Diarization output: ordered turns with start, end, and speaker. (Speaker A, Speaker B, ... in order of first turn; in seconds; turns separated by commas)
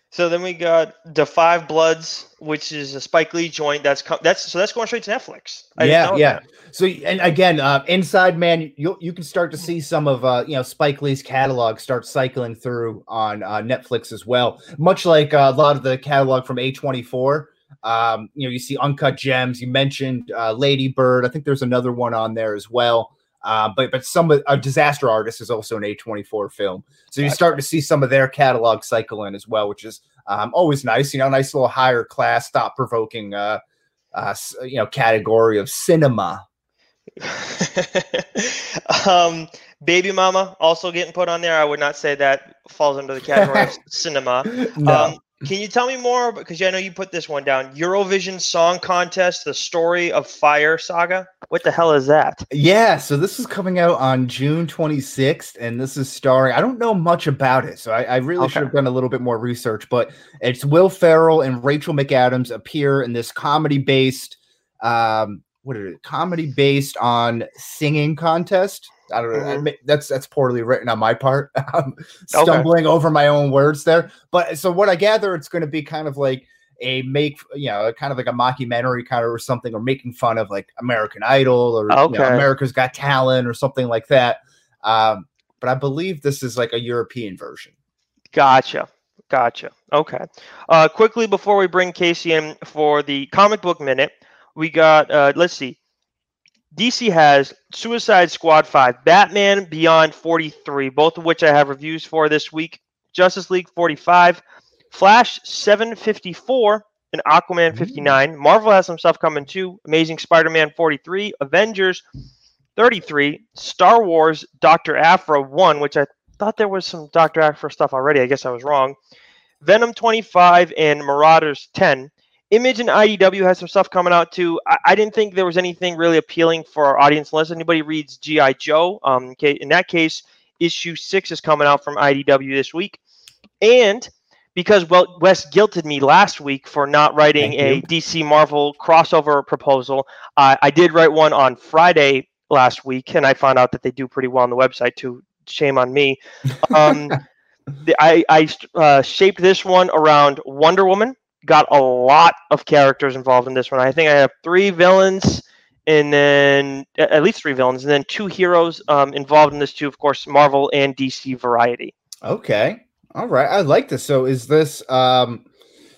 Speaker A: 0.1-6.4, Speaker B: 5.8-33.6, Speaker B: 34.1-36.4, Speaker A: 37.2-52.5, Speaker B: 43.3-43.7, Speaker B: 44.6-45.2, Speaker B: 52.5-87.7, Speaker A: 58.4-58.7, Speaker A: 69.3-69.7, Speaker A: 72.3-72.7, Speaker A: 81.9-82.5, Speaker A: 88.3-95.8, Speaker A: 96.7-112.0, Speaker B: 107.7-108.1, Speaker A: 112.8-119.0, Speaker A: 119.6-133.0, Speaker A: 133.6-147.2, Speaker B: 137.4-137.8, Speaker A: 147.8-161.9, Speaker B: 162.2-165.4